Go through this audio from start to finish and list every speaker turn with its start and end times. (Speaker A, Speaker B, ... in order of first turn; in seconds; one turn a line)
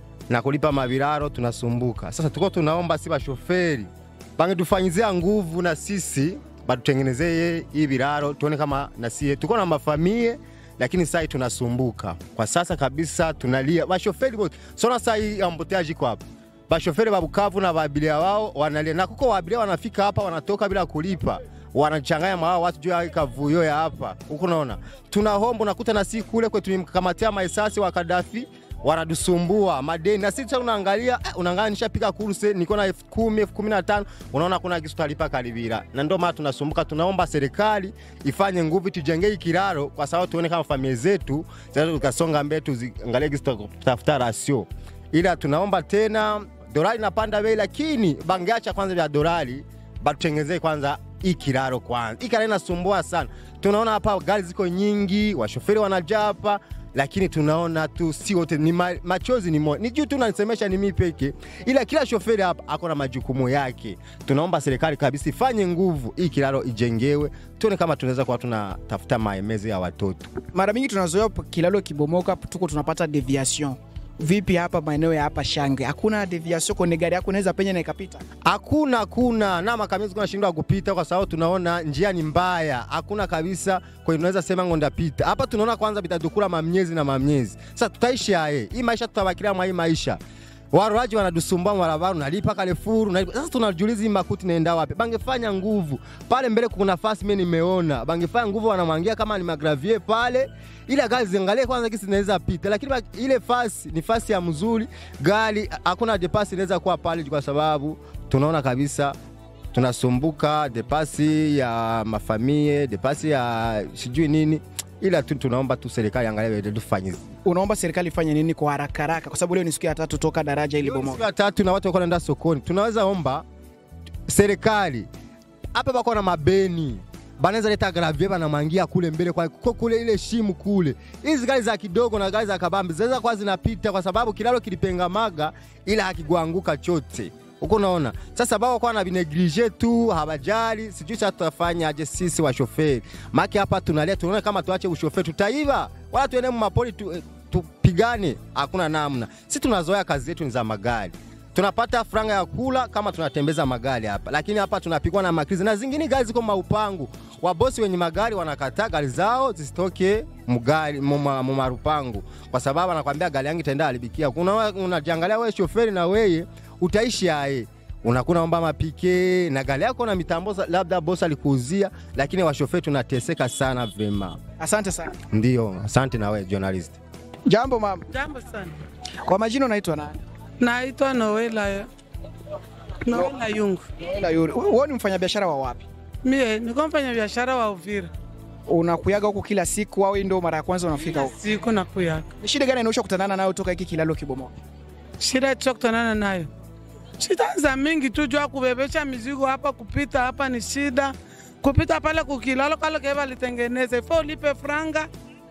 Speaker A: 0.3-70.3
Speaker B: 70.5-78.2
Speaker A: 78.5-90.2
Speaker A: 90.7-109.2
Speaker A: 109.7-117.3
Speaker B: 117.5-121.2
Speaker A: 120.8-123.5
Speaker A: 124.3-125.1
Speaker A: 125.7-174.4
Speaker B: 174.6-175.2
Speaker A: 175.3-177.0
Speaker B: 177.5-178.1
Speaker C: 178.1-178.8
Speaker B: 179.3-180.2
Speaker C: 180.6-181.9
Speaker C: 183.1-183.8
Speaker B: 184.0-185.8
Speaker C: 186.2-188.1
Speaker B: 188.7-191.3
Speaker C: 191.1-192.3
Speaker B: 192.4-194.5
Speaker C: 195.2-196.5
Speaker C: 197.2-205.1